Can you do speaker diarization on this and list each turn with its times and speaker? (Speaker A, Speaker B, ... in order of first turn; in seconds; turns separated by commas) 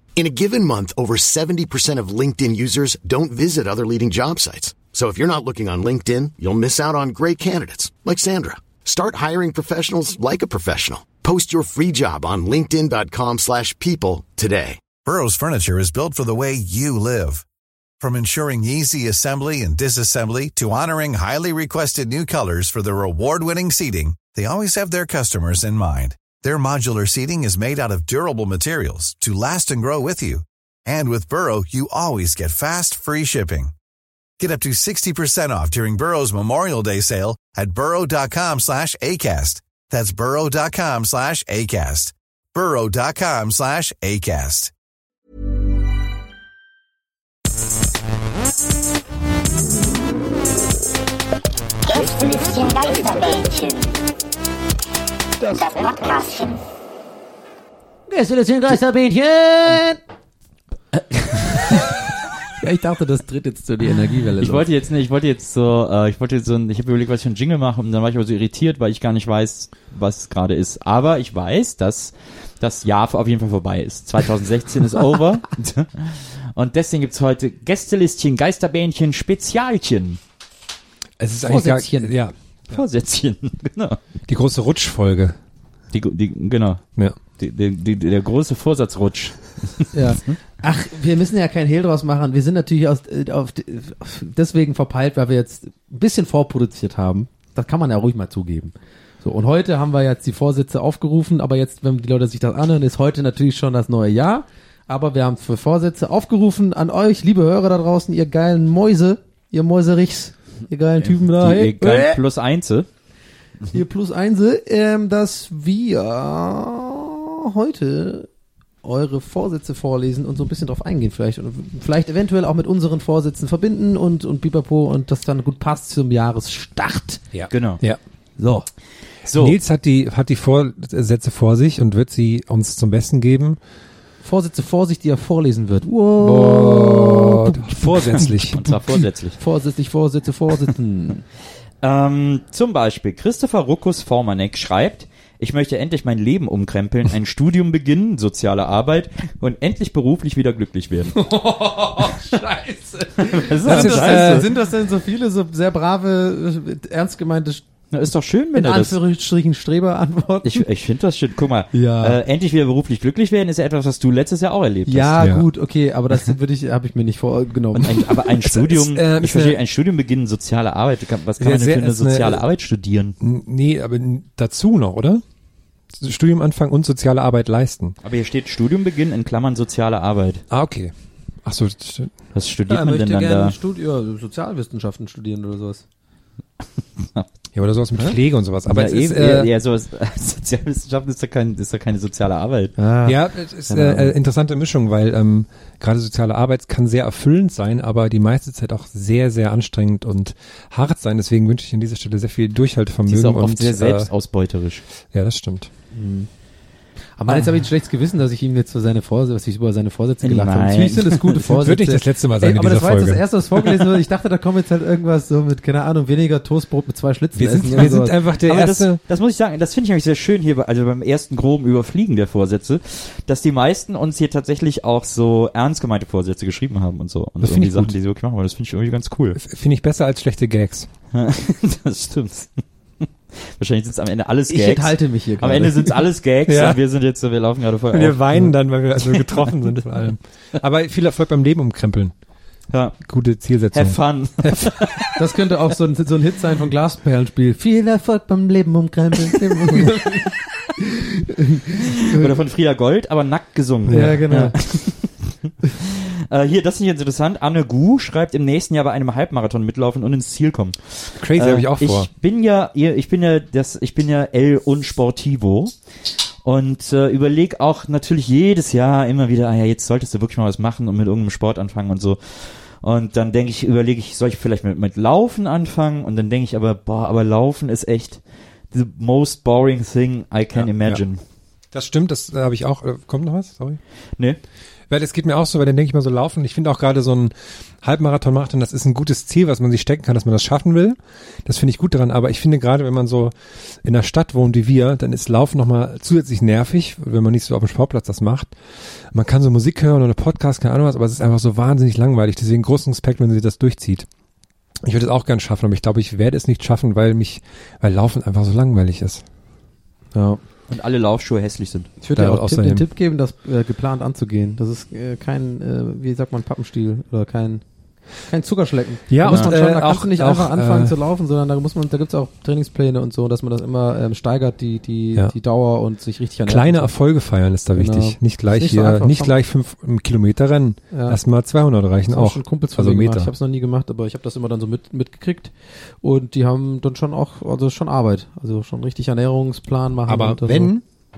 Speaker A: 0.2-14.8, Speaker B: 15.0-17.4, Speaker B: 18.0-33.7, Speaker B: 34.4-44.7, Speaker C: 52.2-53.8, Speaker C: 55.8-56.5, Speaker D: 58.1-60.0, Speaker D: 62.6-64.7, Speaker E: 64.4-80.2, Speaker F: 81.2-82.8, Speaker D: 81.5-82.1, Speaker E: 82.7-84.0, Speaker F: 84.3-85.4, Speaker E: 85.9-86.8, Speaker E: 87.4-89.9, Speaker D: 89.9-112.2, Speaker E: 111.0-112.9, Speaker D: 113.7-118.3, Speaker D: 118.8-127.2, Speaker F: 127.3-128.0, Speaker E: 127.5-127.8, Speaker E: 129.3-129.6, Speaker F: 129.3-133.6, Speaker D: 134.2-137.7, Speaker F: 136.2-138.9, Speaker E: 138.1-139.4, Speaker D: 139.4-141.2, Speaker E: 141.8-151.2, Speaker D: 151.2-157.6, Speaker E: 153.2-154.4, Speaker F: 153.6-154.5, Speaker E: 157.9-159.0, Speaker D: 158.6-160.7, Speaker E: 160.4-165.1, Speaker D: 161.7-162.2, Speaker D: 164.9-168.1, Speaker F: 165.2-165.5, Speaker E: 167.8-173.2, Speaker F: 168.4-169.6, Speaker F: 171.4-172.4, Speaker F: 173.2-175.2, Speaker F: 176.0-178.0, Speaker E: 178.0-180.4, Speaker F: 180.5-180.9, Speaker F: 181.4-182.2, Speaker E: 182.3-183.6, Speaker D: 182.7-185.8, Speaker E: 187.0-187.3, Speaker F: 187.5-189.5, Speaker E: 188.7-192.7, Speaker D: 192.8-194.1, Speaker F: 193.1-204.1, Speaker E: 203.1-204.8, Speaker F: 205.1-205.7, Speaker D: 205.9-206.3, Speaker D: 207.2-218.2, Speaker E: 210.2-211.4, Speaker F: 211.5-213.2, Speaker F: 217.3-219.0, Speaker E: 218.4-229.4, Speaker F: 227.4-227.9, Speaker F: 229.3-230.9, Speaker E: 231.1-238.2, Speaker D: 234.5-236.1, Speaker F: 236.5-236.8, Speaker F: 237.9-242.1, Speaker F: 243.0-244.7, Speaker E: 243.7-245.2, Speaker D: 245.2-252.3, Speaker E: 251.8-265.7, Speaker F: 253.9-254.2, Speaker D: 253.9-254.6, Speaker F: 261.2-262.1, Speaker E: 266.4-278.2, Speaker E: 278.7-281.2, Speaker F: 280.6-281.0, Speaker F: 281.7-283.8, Speaker F: 284.9-298.5, Speaker F: 299.1-304.1, Speaker F: 304.8-309.2, Speaker D: 310.1-310.4, Speaker E: 310.7-311.9, Speaker D: 312.0-317.6, Speaker F: 312.1-312.9, Speaker D: 318.2-326.9, Speaker F: 319.1-321.0, Speaker F: 326.5-333.3, Speaker D: 327.8-329.4, Speaker D: 330.9-331.2, Speaker D: 332.1-335.5, Speaker D: 336.0-340.7, Speaker F: 340.1-340.8